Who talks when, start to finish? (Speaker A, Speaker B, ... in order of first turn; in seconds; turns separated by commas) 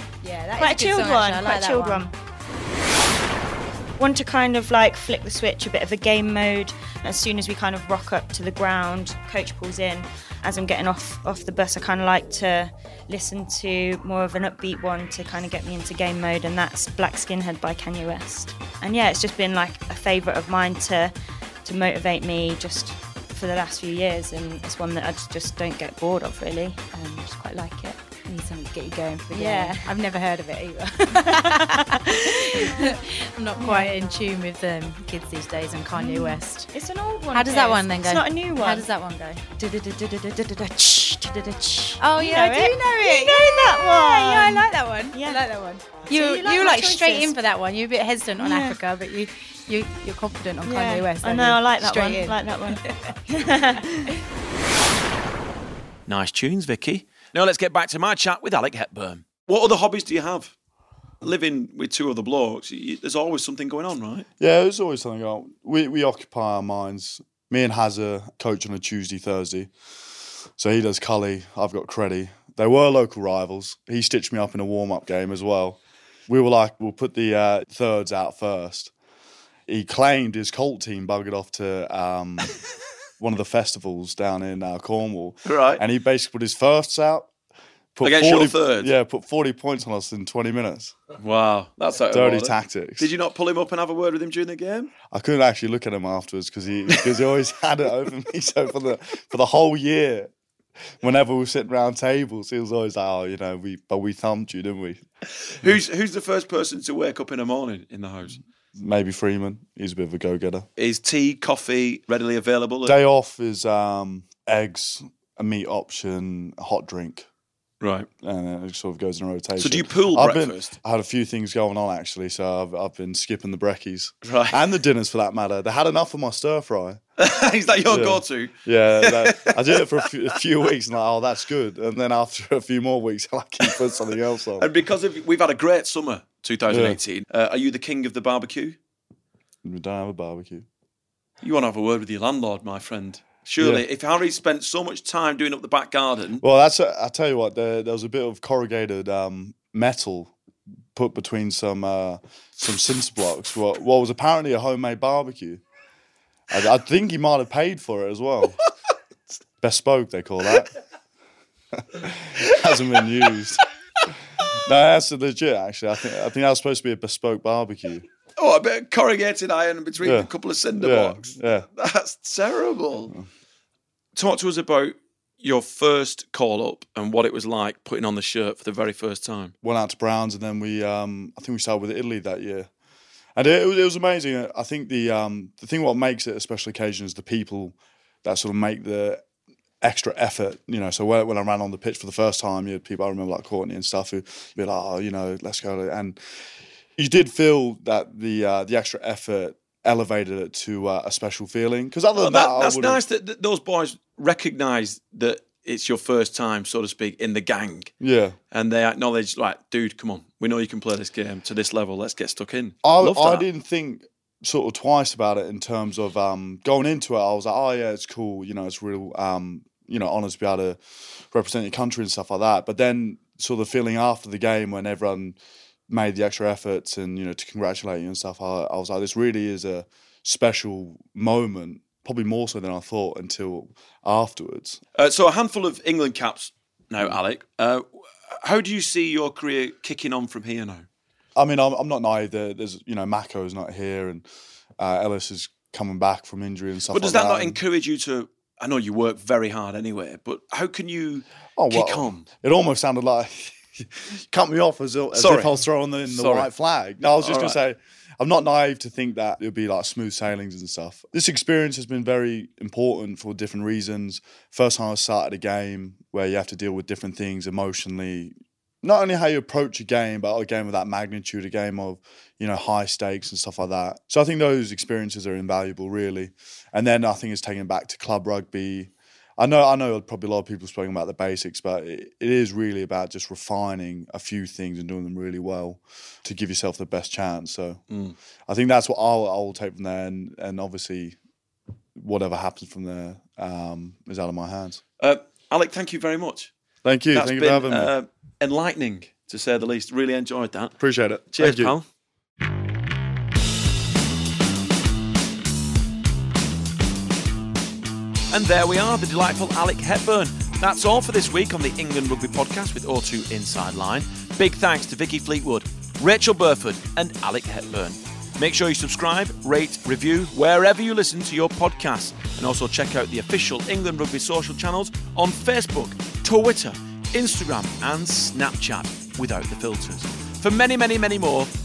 Speaker A: 0.2-2.1, Speaker B: 0.6-2.1, Speaker B: 4.0-21.1, Speaker B: 21.6-28.1, Speaker A: 28.3-36.7, Speaker B: 29.3-29.9, Speaker B: 31.3-32.9, Speaker B: 33.6-33.9, Speaker B: 36.0-38.9, Speaker A: 37.3-39.4, Speaker B: 39.6-45.4, Speaker A: 42.0-53.2, Speaker B: 46.0-47.4, Speaker B: 48.4-48.8, Speaker B: 50.7-54.1, Speaker C: 56.1-60.5, Speaker C: 61.2-64.3, Speaker D: 64.4-69.7, Speaker D: 70.6-78.9, Speaker D: 79.7-82.5, Speaker D: 83.2-87.3, Speaker C: 85.5-85.8, Speaker D: 88.0-91.0, Speaker C: 88.0-88.9, Speaker C: 91.2-94.9, Speaker D: 92.1-93.1, Speaker D: 95.1-100.3, Speaker D: 101.0-105.0, Speaker C: 105.4-108.4, Speaker D: 108.8-110.7, Speaker C: 110.8-113.0, Speaker D: 112.9-117.3, Speaker C: 117.8-118.1, Speaker D: 118.2-127.0, Speaker C: 119.6-120.8, Speaker C: 124.2-124.7, Speaker C: 127.2-130.1, Speaker D: 127.9-134.7, Speaker C: 134.6-138.8, Speaker D: 136.7-137.0, Speaker D: 139.6-140.7, Speaker C: 141.4-146.4, Speaker D: 143.6-143.8, Speaker D: 146.4-150.3, Speaker D: 150.9-155.6, Speaker D: 156.5-158.6, Speaker D: 159.6-160.7, Speaker D: 161.7-163.6, Speaker D: 164.5-168.1, Speaker C: 168.4-173.1, Speaker D: 170.0-171.7, Speaker C: 174.2-179.5, Speaker D: 179.6-182.7, Speaker D: 183.4-189.2, Speaker D: 189.8-196.2, Speaker D: 197.0-203.0, Speaker C: 202.2-207.9, Speaker D: 208.0-208.4, Speaker C: 208.5-213.4, Speaker D: 212.8-225.4, Speaker D: 225.9-234.8, Speaker C: 235.0-240.8, Speaker D: 241.4-244.2, Speaker D: 244.8-247.6, Speaker C: 246.9-252.3, Speaker D: 251.6-287.8, Speaker C: 255.1-256.5, Speaker C: 257.0-257.6, Speaker C: 287.9-288.2, Speaker D: 288.5-291.2, Speaker D: 292.0-294.8, Speaker C: 295.0-296.5, Speaker D: 296.8-297.9, Speaker C: 297.1-300.8, Speaker D: 300.8-301.8, Speaker C: 301.3-301.9, Speaker C: 308.3-331.5